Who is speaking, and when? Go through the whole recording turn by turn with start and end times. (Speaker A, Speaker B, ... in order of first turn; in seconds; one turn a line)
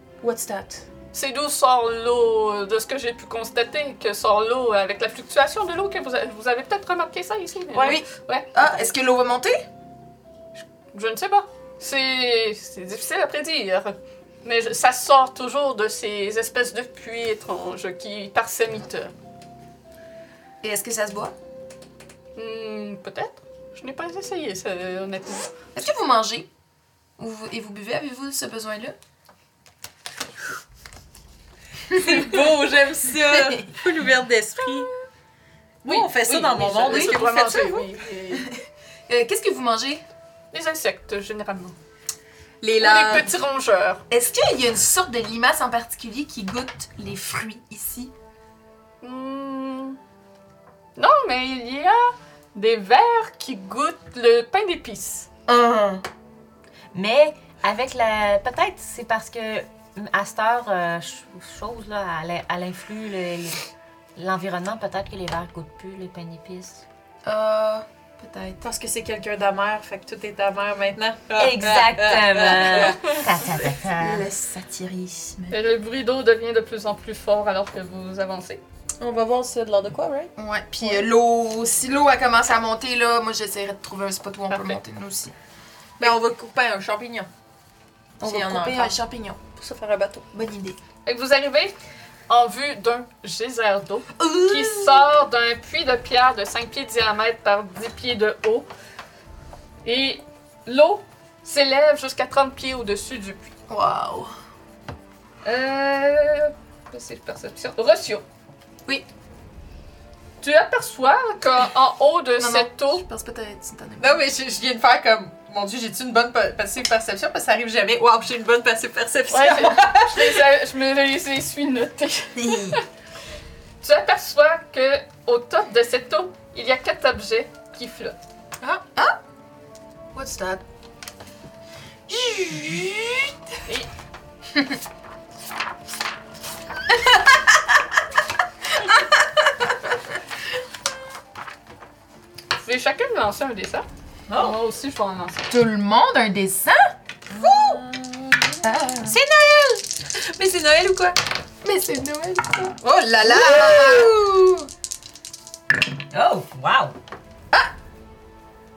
Speaker A: 0.2-0.8
Speaker B: 1.1-8.7
Speaker A: 7.7-8.1
Speaker C: 8.5-9.6
Speaker B: 10.6-19.1
Speaker C: 20.6-21.3
Speaker B: 22.4-25.5
Speaker C: 25.8-26.5
Speaker C: 27.2-28.9
Speaker A: 31.9-34.9
Speaker C: 31.9-32.4
Speaker C: 33.2-33.7
Speaker A: 35.8-37.9
Speaker B: 35.9-38.5
Speaker C: 36.9-37.2
Speaker C: 39.1-40.0
Speaker B: 40.5-41.8
Speaker A: 42.6-43.3
Speaker B: 42.8-44.0
Speaker C: 44.1-48.1
Speaker B: 49.0-50.0
Speaker B: 51.0-55.3
Speaker A: 55.5-56.0
Speaker D: 56.9-63.6
Speaker D: 64.2-66.8
Speaker C: 67.2-68.6
Speaker A: 68.6-73.2
Speaker D: 71.4-74.3
Speaker C: 73.3-75.6
Speaker B: 75.5-78.6
Speaker A: 79.0-80.3
Speaker C: 80.4-85.3
Speaker B: 84.5-84.8
Speaker A: 86.0-87.3
Speaker C: 88.2-89.5
Speaker A: 88.2-89.0
Speaker A: 89.5-90.3
Speaker C: 90.3-90.8
Speaker B: 91.1-91.8
Speaker B: 92.3-98.7
Speaker B: 99.8-103.5
Speaker C: 103.7-104.3
Speaker B: 105.4-108.2
Speaker B: 110.4-113.0
Speaker C: 112.4-114.2
Speaker A: 114.0-120.4
Speaker B: 119.3-122.8
Speaker C: 122.4-122.8
Speaker B: 123.8-128.2
Speaker C: 128.8-129.2
Speaker C: 130.1-130.6
Speaker A: 132.1-133.3
Speaker B: 142.6-145.5
Speaker C: 145.5-146.9
Speaker A: 147.3-151.2
Speaker D: 147.4-147.6
Speaker C: 148.6-149.2
Speaker C: 151.6-154.7
Speaker A: 152.8-154.2
Speaker D: 156.1-157.0